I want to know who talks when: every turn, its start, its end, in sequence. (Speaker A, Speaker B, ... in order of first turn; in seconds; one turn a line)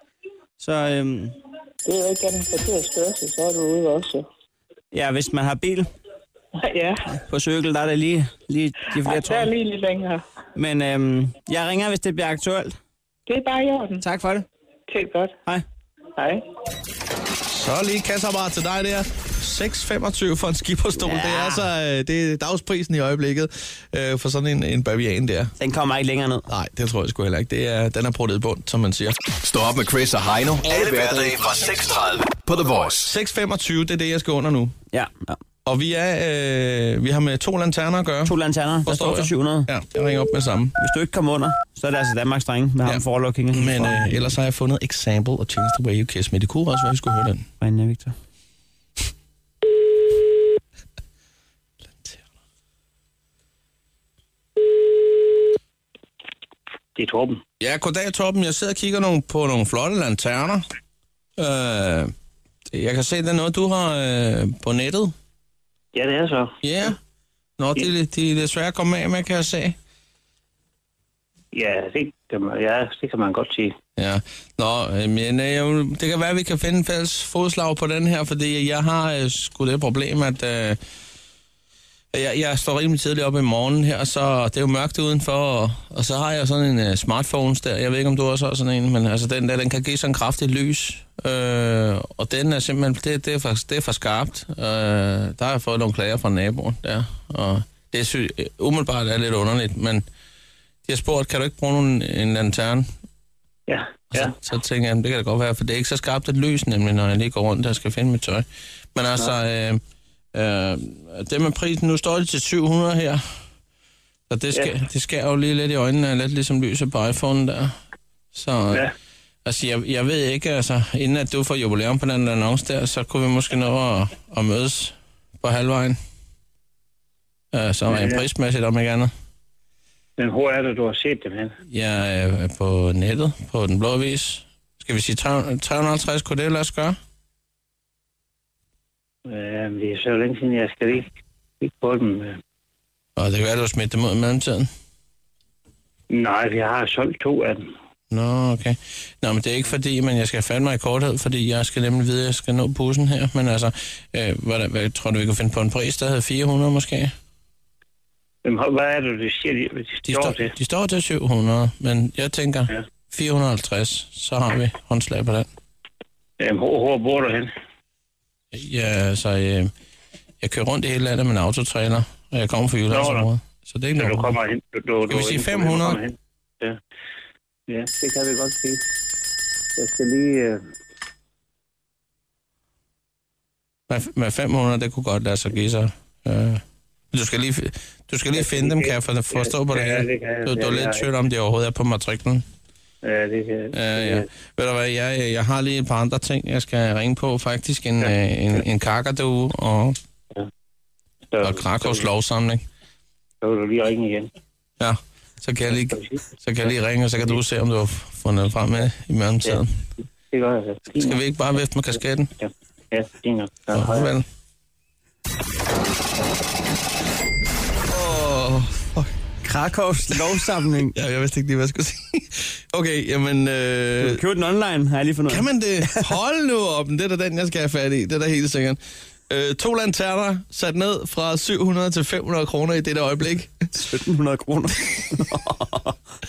Speaker A: 0.6-1.4
Speaker B: 1.8-4.2
Speaker A: 4.9-5.9
Speaker B: 6.5-7.0
Speaker A: 7.1-9.5
Speaker B: 9.0-10.2
Speaker A: 10.5-12.8
Speaker B: 13.3-14.0
Speaker A: 14.0-14.5
Speaker B: 14.9-15.3
Speaker B: 16.1-16.4
Speaker C: 17.5-25.5
Speaker A: 21.0-21.7
Speaker A: 25.6-26.4
Speaker C: 26.5-29.2
Speaker D: 29.4-33.1
Speaker C: 30.7-31.0
Speaker C: 33.0-34.7
Speaker A: 34.9-35.4
Speaker C: 35.6-38.3
Speaker A: 38.2-39.7
Speaker C: 38.9-40.7
Speaker A: 40.8-44.3
Speaker C: 42.8-47.4
Speaker A: 47.6-48.1
Speaker E: 57.0-57.4
Speaker C: 57.6-60.6
Speaker C: 61.4-62.1
Speaker C: 62.7-65.1
Speaker E: 65.9-66.5
Speaker C: 66.6-67.0
Speaker C: 67.6-69.8
Speaker E: 71.5-73.8
Speaker C: 74.0-80.8
Speaker C: 82.1-100.0
Speaker C: 100.8-102.8
Speaker E: 103.7-104.3
Speaker C: 104.1-109.8
Speaker C: 110.3-113.2
Speaker C: 114.3-117.7
Speaker C: 118.3-118.8
Speaker C: 119.4-126.0
Speaker C: 127.5-129.1
Speaker E: 127.9-128.2
Speaker E: 130.2-131.5
Speaker C: 131.7-137.0
Speaker E: 139.3-141.1
Speaker E: 141.6-142.3
Speaker C: 143.2-144.7
Speaker E: 146.1-147.6
Speaker C: 148.1-157.1
Speaker E: 158.4-160.5
Speaker C: 160.0-165.5
Speaker E: 166.4-167.5
Speaker C: 168.5-169.7
Speaker C: 170.4-174.3
Speaker E: 172.9-173.3
Speaker E: 174.0-176.8
Speaker C: 175.1-176.0
Speaker E: 177.7-178.8
Speaker E: 179.8-180.6
Speaker C: 183.9-192.4
Speaker E: 188.3-191.0
Speaker E: 193.0-194.2
Speaker C: 193.7-200.0
Speaker E: 201.3-202.0
Speaker C: 201.4-202.6
Speaker E: 203.4-204.3
Speaker C: 204.8-209.7
Speaker E: 205.7-206.2
Speaker E: 210.3-211.2
Speaker C: 210.9-212.3
Speaker E: 212.4-214.1
Speaker C: 213.7-214.2
Speaker C: 217.9-219.1
Speaker A: 219.4-220.9
Speaker C: 220.1-224.2
Speaker A: 224.0-226.1
Speaker C: 225.3-233.5
Speaker A: 233.7-235.9